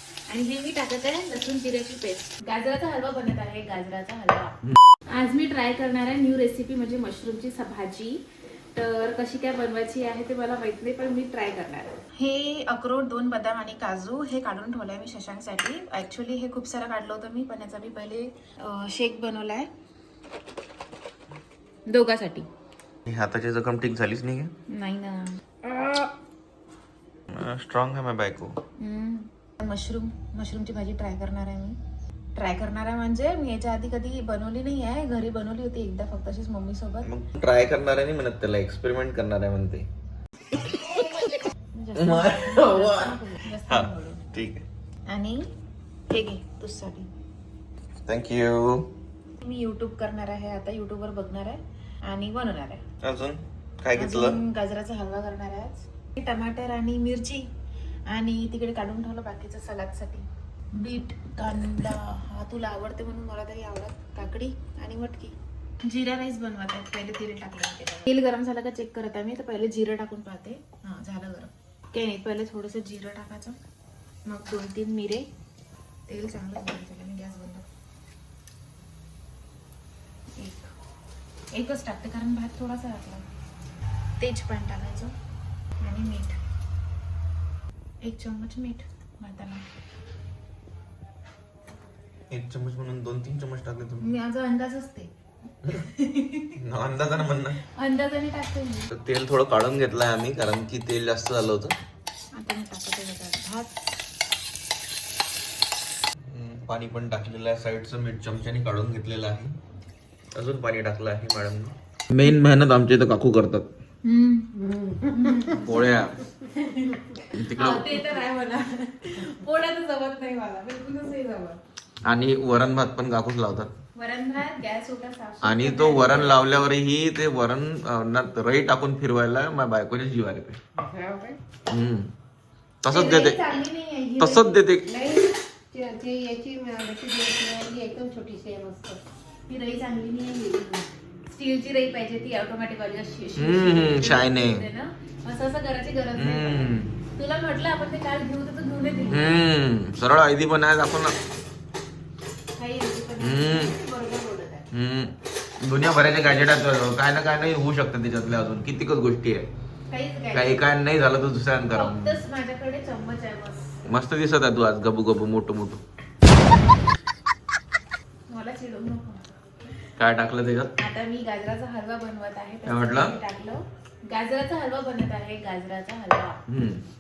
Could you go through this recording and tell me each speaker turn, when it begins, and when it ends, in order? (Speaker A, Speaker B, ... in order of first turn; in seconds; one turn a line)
Speaker A: 0.3-4.5
Speaker A: 5.1-8.2
Speaker A: 8.8-19.7
Speaker A: 21.9-22.5
Speaker B: 23.1-24.5
Speaker A: 24.7-26.1
Speaker B: 27.3-28.6
Speaker A: 28.8-31.8
Speaker A: 32.4-37.1
Speaker B: 37.0-39.9
Speaker A: 41.7-44.2
Speaker B: 42.0-44.6
Speaker A: 45.1-45.5
Speaker A: 46.1-47.1
Speaker B: 48.1-48.9
Speaker A: 49.4-52.8
Speaker B: 53.0-54.4
Speaker A: 54.0-57.5
Speaker A: 58.1-73.6
Speaker A: 74.3-75.2
Speaker A: 76.1-77.7
Speaker A: 80.4-80.7
Speaker A: 81.5-83.2
Speaker A: 84.2-85.1
Speaker A: 85.8-86.4
Speaker A: 88.0-89.6
Speaker B: 92.3-94.1
Speaker A: 94.0-95.1
Speaker A: 95.7-96.5
Speaker B: 96.6-97.6
Speaker A: 97.6-98.9
Speaker B: 98.9-101.7
Speaker A: 102.3-103.7
Speaker B: 106.3-109.6
Speaker B: 110.3-113.7
Speaker A: 114.0-115.8
Speaker C: 114.8-115.1
Speaker B: 115.6-116.2
Speaker A: 116.5-121.6
Speaker B: 117.3-117.9
Speaker B: 122.0-123.7
Speaker A: 124.0-126.5
Speaker B: 125.4-130.6
Speaker C: 130.8-131.4
Speaker B: 131.7-132.1
Speaker B: 132.8-133.4
Speaker A: 132.9-135.3
Speaker B: 134.2-134.9
Speaker C: 135.7-139.0
Speaker A: 139.5-149.4
Speaker B: 143.4-144.7
Speaker B: 146.2-146.9
Speaker B: 149.1-151.2
Speaker A: 152.6-154.7
Speaker B: 153.2-153.7
Speaker B: 154.7-159.5
Speaker A: 159.9-160.7
Speaker B: 160.3-162.2
Speaker A: 161.7-163.7
Speaker B: 163.9-165.8
Speaker A: 168.3-169.6
Speaker B: 170.0-170.7
Speaker A: 170.8-176.4
Speaker B: 172.7-173.2
Speaker B: 176.5-176.8